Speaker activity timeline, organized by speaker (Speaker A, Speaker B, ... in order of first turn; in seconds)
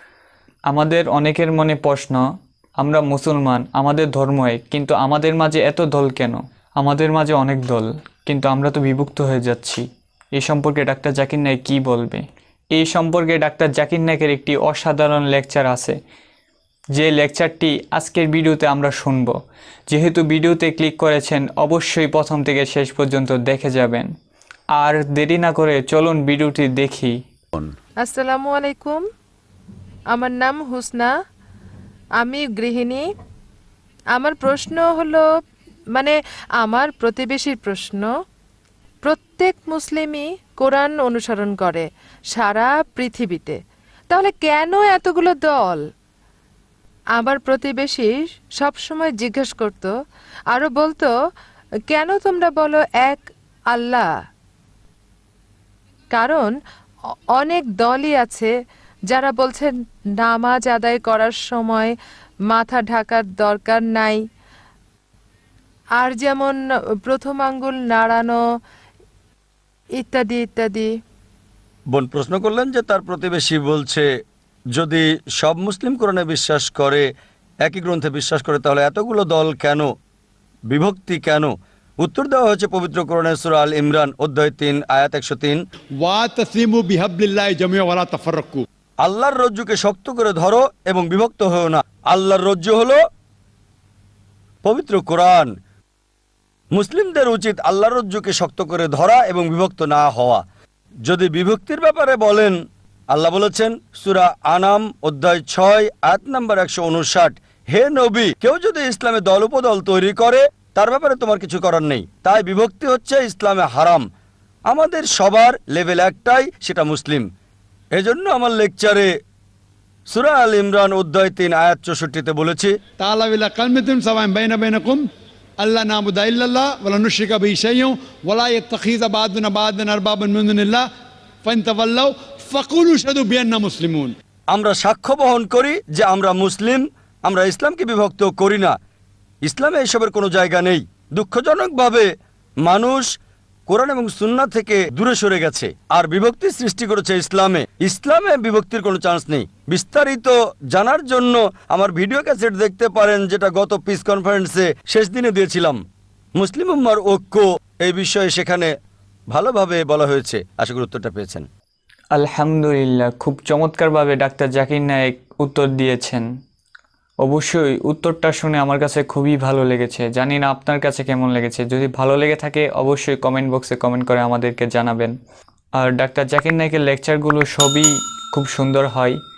Speaker A: 0.7-2.2, 2.8-9.8, 10.4-12.2, 12.8-16.0, 16.9-19.4, 19.9-24.1, 24.8-27.2, 162.1-166.3, 167.2-175.2, 175.8-179.2
Speaker B: 28.0-29.0, 30.1-31.1, 32.2-33.0, 34.1-35.2, 36.0-38.1, 39.0-43.6, 44.1-45.8, 47.2-49.9, 50.5-51.1, 51.9-54.1, 56.1-56.5, 57.4-58.5, 59.1-61.9, 62.5-64.2, 66.0-68.4, 70.0-70.9
Speaker C: 71.9-74.1, 74.8-77.1, 77.7-79.9, 80.7-85.6, 89.0-93.0, 94.6-95.5, 96.7-100.4, 101.1-102.6, 103.1-114.0, 114.7-117.3, 118.0-119.1, 120.1-122.8, 134.5-138.8, 139.4-142.1, 142.6-143.1, 143.7-155.8, 156.4-158.7, 159.3-161.5
Speaker D: 86.0-88.6, 123.0-125.0, 125.6-130.9, 131.4-134.2